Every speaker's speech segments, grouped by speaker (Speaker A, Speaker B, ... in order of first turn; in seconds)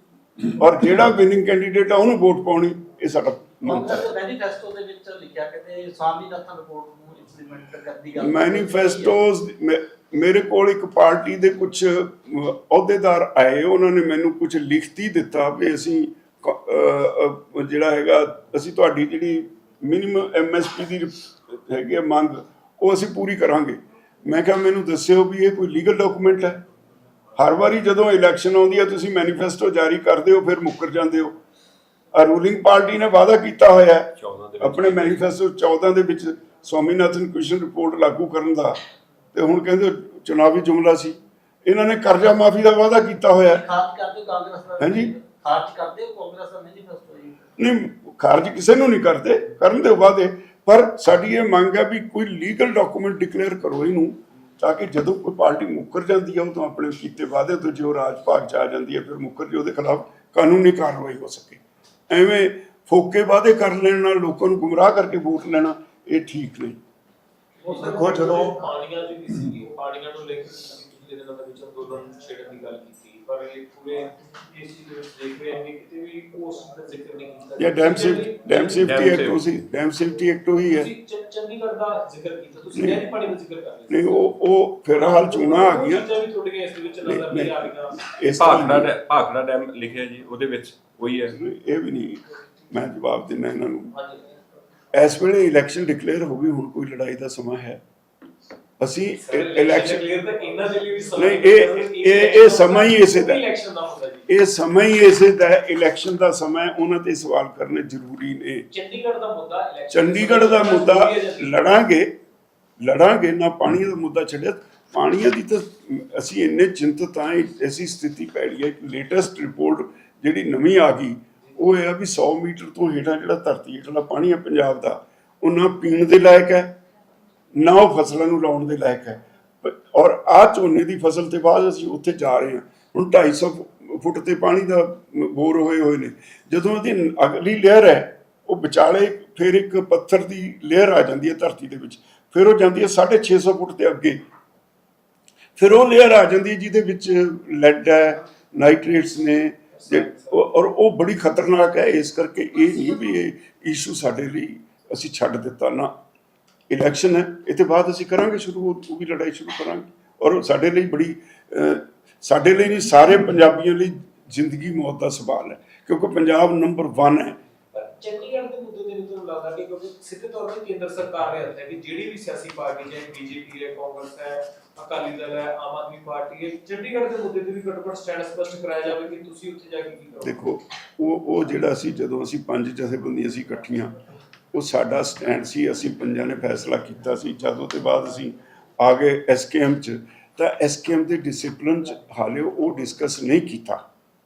Speaker A: 0.4-4.1, 8.2-26.6, 27.4-31.4, 32.1-38.8, 39.3-43.6, 44.8-45.1, 47.6-66.8, 77.6-80.9, 82.7-83.0, 83.9-86.1, 87.0-88.9, 91.3-93.9, 94.9-97.8, 98.8-100.0, 101.2-103.4, 104.3-108.7, 109.9-112.2, 112.8-126.8, 127.5-144.2, 145.6-155.9, 156.7-167.4, 180.2-183.9, 184.5-193.8
Speaker B: 3.6-9.2, 43.4-47.4
Speaker C: 34.2-35.2, 78.8-79.4, 88.3-91.5
Speaker D: 67.6-79.1, 80.7-84.3, 84.9-88.0, 93.9-94.2, 99.2-104.3, 108.7-111.7, 149.7-150.4, 167.7-180.4